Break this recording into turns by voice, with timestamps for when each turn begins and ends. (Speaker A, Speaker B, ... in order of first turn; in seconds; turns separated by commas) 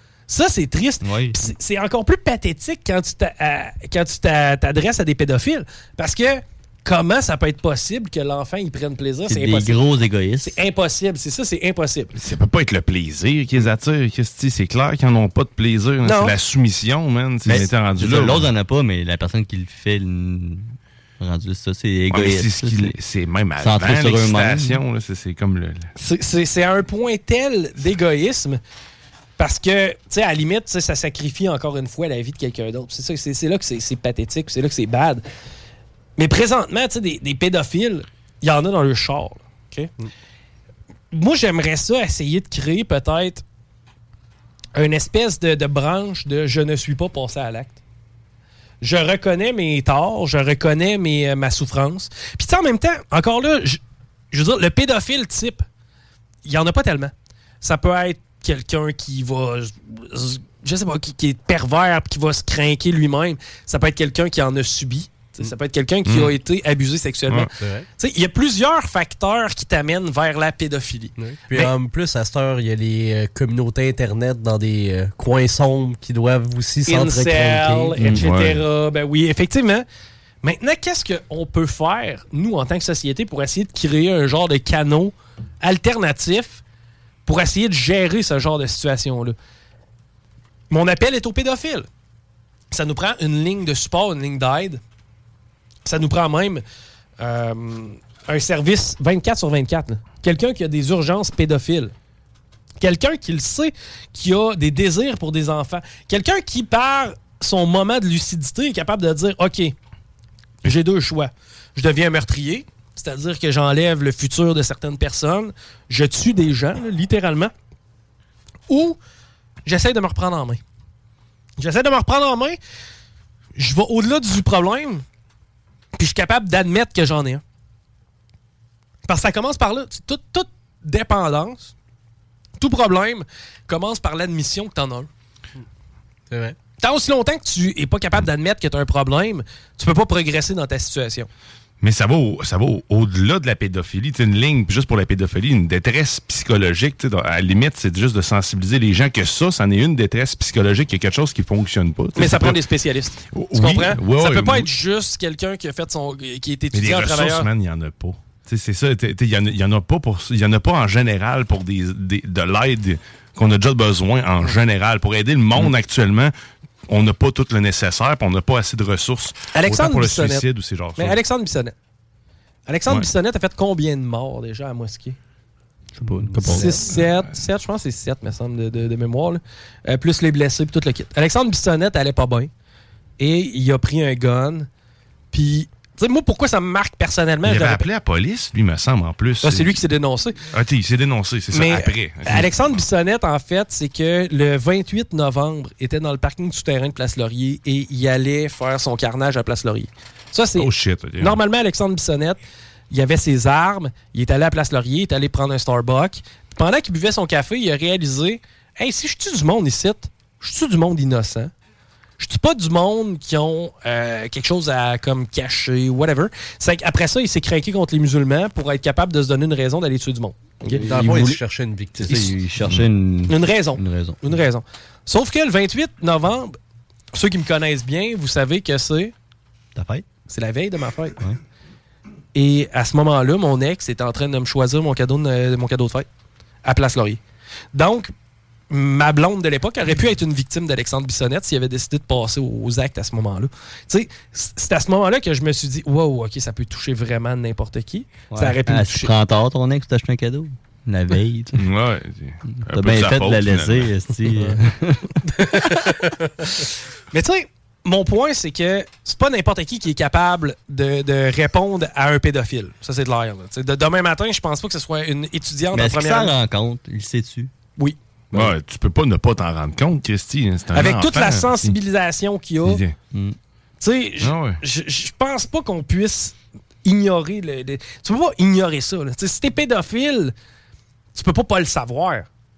Speaker A: 0.3-9.8, Speaker B: 1.0-1.5, Speaker B: 9.3-10.5, Speaker A: 10.4-12.1, Speaker C: 12.1-18.5, Speaker A: 16.0-16.3, Speaker B: 17.4-22.9, Speaker C: 22.1-25.9, Speaker B: 23.6-24.8, Speaker A: 25.9-28.6, Speaker A: 29.4-35.2, Speaker A: 36.2-39.9, Speaker A: 41.1-43.4, Speaker A: 44.7-47.8, Speaker A: 48.8-53.8, Speaker A: 54.3-55.6, Speaker A: 56.4-71.7, Speaker C: 66.0-66.3, Speaker D: 67.5-67.9, Speaker D: 71.2-78.0, Speaker A: 76.8-79.8, Speaker C: 78.0-78.6, Speaker A: 80.4-86.6, Speaker A: 87.2-89.3, Speaker A: 90.7-91.9, Speaker A: 92.7-94.8, Speaker A: 95.8-96.6, Speaker A: 97.2-101.9, Speaker A: 102.8-109.7, Speaker A: 110.6-117.5, Speaker A: 118.7-119.0, Speaker A: 119.7-120.6, Speaker A: 121.6-122.6, Speaker A: 123.5-125.0, Speaker A: 126.0-127.4, Speaker A: 129.1-131.7, Speaker A: 132.6-135.1, Speaker D: 136.3-136.6, Speaker A: 136.8-141.3, Speaker C: 141.8-152.6, Speaker A: 152.2-157.5, Speaker C: 153.3-154.7, Speaker C: 156.7-166.3, Speaker C: 166.9-171.2, Speaker A: 169.5-170.4, Speaker A: 170.9-171.7, Speaker A: 172.7-175.2, Speaker B: 175.9-176.8, Speaker D: 176.2-176.7, Speaker A: 176.4-182.5, Speaker A: 183.2-184.7, Speaker A: 185.3-187.8, Speaker C: 187.4-189.8, Speaker A: 189.4-190.4, Speaker C: 190.5-192.8, Speaker A: 191.5-202.4, Speaker C: 200.6-201.4, Speaker A: 202.9-211.5, Speaker A: 212.2-220.8, Speaker B: 220.7-221.4, Speaker D: 220.8-222.3, Speaker B: 222.0-224.3, Speaker A: 223.3-226.6, Speaker A: 227.1-229.1, Speaker B: 229.8-230.0, Speaker A: 230.3-231.2, Speaker A: 232.3-236.1, Speaker A: 236.6-237.2, Speaker A: 237.7-238.1, Speaker A: 238.7-249.1, Speaker B: 248.3-251.6, Speaker C: 251.6-253.9, Speaker B: 252.7-255.0, Speaker A: 256.6-266.3, Speaker B: 265.7-267.5, Speaker C: 268.3-271.8, Speaker A: 270.7-272.8, Speaker C: 272.6-272.9, Speaker A: 273.8-280.3, Speaker C: 274.2-274.6, Speaker A: 281.1-282.3